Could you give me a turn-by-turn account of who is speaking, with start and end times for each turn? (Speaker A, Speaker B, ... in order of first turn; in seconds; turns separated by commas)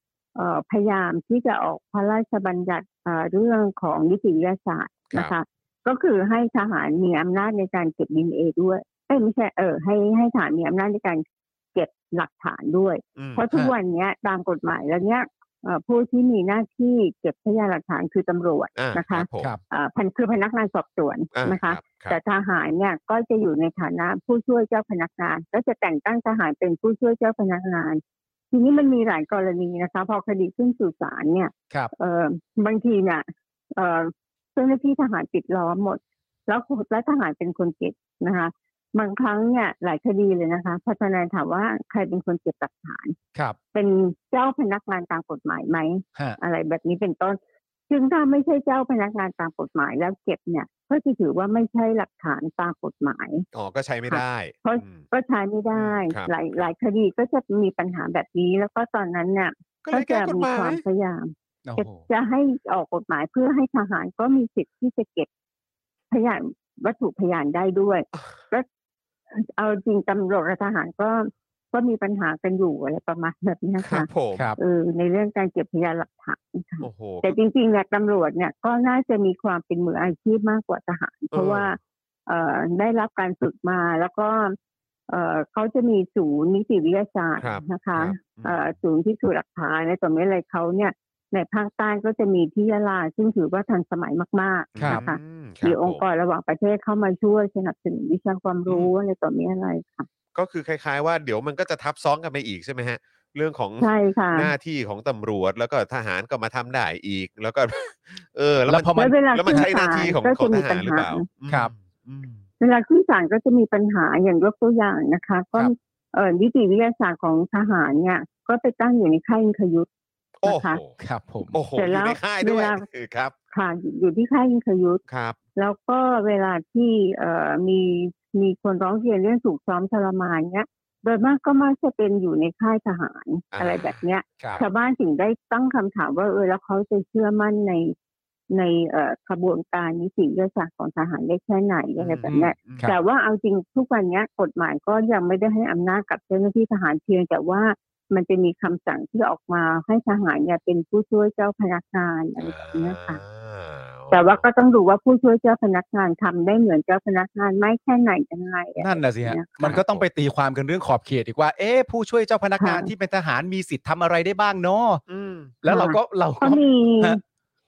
Speaker A: 0.3-43.1, Speaker B: 13.2-13.4, Speaker B: 18.8-19.5, Speaker B: 21.3-22.2, Speaker A: 43.7-53.5, Speaker B: 53.5-55.0, Speaker A: 54.1-65.3, Speaker B: 55.7-56.7, Speaker B: 59.8-60.8, Speaker C: 61.6-62.0, Speaker A: 66.1-68.7, Speaker A: 69.3-84.6, Speaker B: 73.8-74.4, Speaker B: 76.8-77.4, Speaker B: 81.3-81.8, Speaker A: 85.1-100.1, Speaker B: 87.4-88.8, Speaker B: 94.8-96.0, Speaker B: 98.7-98.9, Speaker B: 100.3-112.4, Speaker A: 103.8-104.5, Speaker C: 108.7-109.7, Speaker A: 109.0-111.2, Speaker A: 112.6-119.9, Speaker B: 120.4-121.0, Speaker A: 120.4-120.8, Speaker C: 121.0-121.6, Speaker B: 121.5-123.3, Speaker A: 121.8-122.8, Speaker A: 123.5-125.0, Speaker B: 125.1-125.4, Speaker A: 125.5-137.9, Speaker B: 133.5-134.0, Speaker A: 138.5-153.2, Speaker B: 142.0-142.9, Speaker C: 142.2-142.9, Speaker B: 152.4-154.4, Speaker A: 154.1-159.8, Speaker C: 158.8-165.0, Speaker B: 159.6-160.1, Speaker A: 162.6-162.9, Speaker B: 165.1-165.6, Speaker C: 165.6-167.2, Speaker A: 165.7-167.2